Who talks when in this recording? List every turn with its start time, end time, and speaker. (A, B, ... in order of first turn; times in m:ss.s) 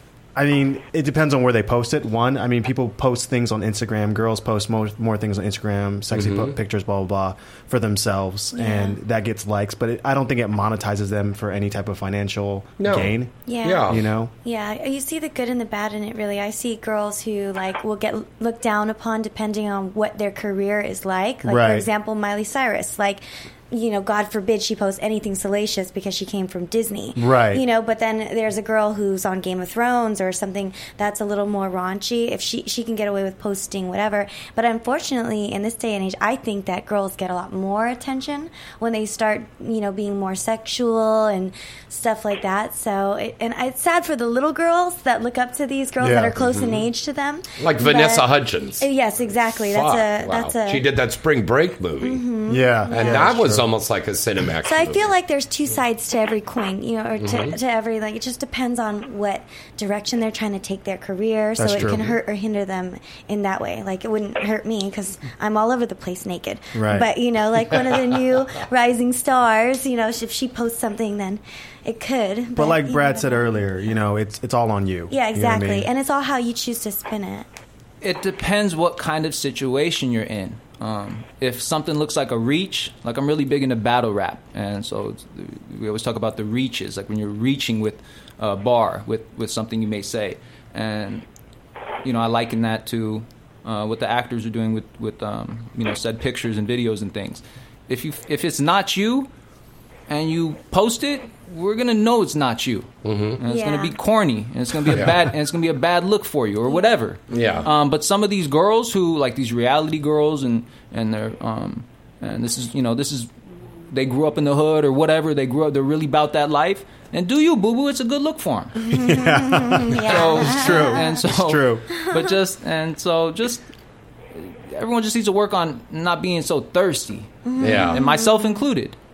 0:00.4-0:13.3 A
0:06.1-0:06.6 B
0:08.5-0:09.0 C
0:12.8-0:14.1 B
0:13.5-0:13.9 C
0:13.9-0:14.3 A
0:14.4-0:48.3 C
0:21.4-0:21.8 A
0:27.2-0:27.6 A
0:46.0-0:46.4 A
0:46.4-0:46.9 B
0:47.6-0:48.9 B
0:48.8-0:50.8 C
0:49.6-0:52.2 B
0:52.0-0:53.3 C
0:52.5-0:53.7 A
0:52.9-0:55.1 B
0:54.6-1:13.7 C
0:57.2-0:57.6 B
1:01.6-1:02.2 A
1:06.7-1:07.1 A
1:12.6-1:15.9 A
1:15.1-1:17.5 C
1:18.0-1:31.2 D
1:32.0-1:39.3 D
1:40.1-1:53.3 D
1:43.0-1:43.4 B
1:43.4-1:44.0 C
1:44.9-1:45.2 B
1:46.7-1:47.7 C
1:47.3-1:47.7 B
1:53.9-1:58.8 D
1:58.9-2:01.1 C
1:58.9-2:01.8 A
2:00.0-2:03.6 D
2:04.3-2:09.0 D
2:07.4-2:08.6 C
2:07.6-2:08.0 B